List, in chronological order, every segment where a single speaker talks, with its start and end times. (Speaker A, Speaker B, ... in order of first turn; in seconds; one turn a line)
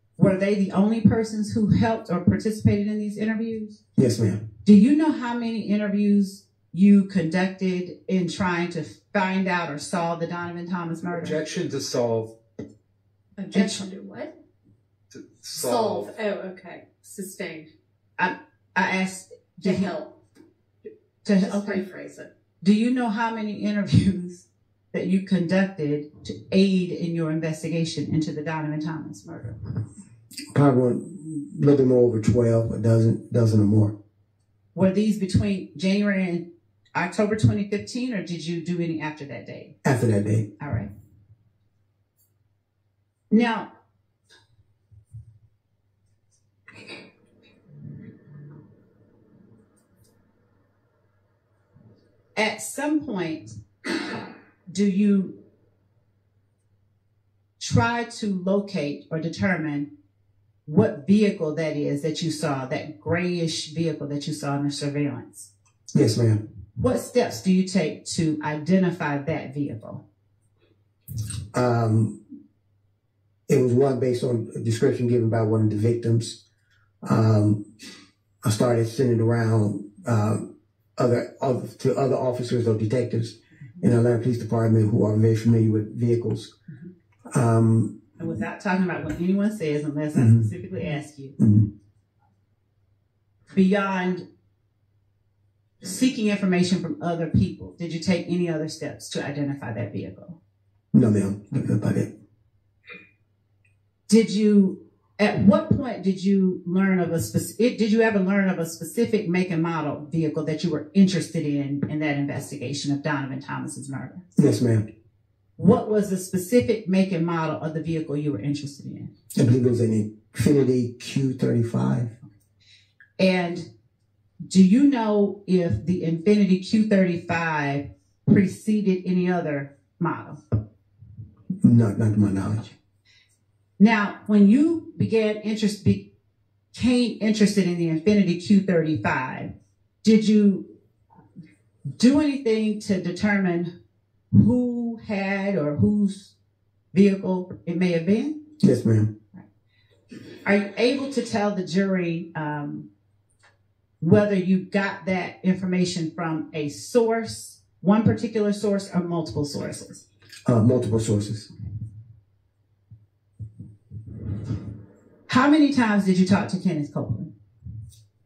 Speaker A: 0.2-3.8
Speaker B: 4.0-4.4
Speaker A: 4.6-11.4
Speaker C: 11.2-12.3
Speaker D: 13.4-14.3
Speaker A: 13.5-13.8
Speaker C: 15.1-16.1
Speaker D: 15.5-17.7
Speaker A: 18.2-19.9
Speaker D: 19.6-20.1
Speaker A: 21.2-21.8
Speaker D: 21.3-22.3
Speaker A: 22.6-29.6
Speaker B: 30.5-33.9
Speaker A: 34.7-39.7
Speaker B: 39.8-40.5
Speaker A: 40.6-40.9
Speaker A: 43.3-43.7
Speaker A: 52.3-53.5
Speaker A: 54.7-55.4
Speaker A: 57.6-59.9
Speaker A: 60.6-65.5
Speaker B: 65.9-66.4
Speaker A: 66.8-70.0
Speaker B: 71.5-72.2
Speaker B: 73.5-76.4
Speaker B: 77.0-77.6
Speaker B: 78.4-86.5
Speaker B: 87.3-87.9
Speaker A: 88.2-91.4
Speaker B: 90.2-90.5
Speaker B: 91.4-91.7
Speaker A: 93.5-94.2
Speaker A: 95.8-100.4
Speaker B: 100.9-102.1
Speaker A: 104.1-114.2
Speaker B: 114.4-114.8
Speaker A: 115.6-119.1
Speaker B: 119.3-122.1
Speaker A: 123.2-123.7
Speaker A: 124.5-130.4
Speaker B: 131.6-132.7
Speaker A: 133.8-136.1
Speaker A: 136.7-139.5
Speaker A: 140.0-140.7
Speaker A: 142.0-143.7
Speaker A: 144.3-146.3
Speaker A: 146.9-148.4
Speaker B: 148.6-149.1
Speaker A: 150.4-152.9
Speaker A: 154.0-160.0
Speaker B: 160.4-161.5
Speaker A: 165.3-167.3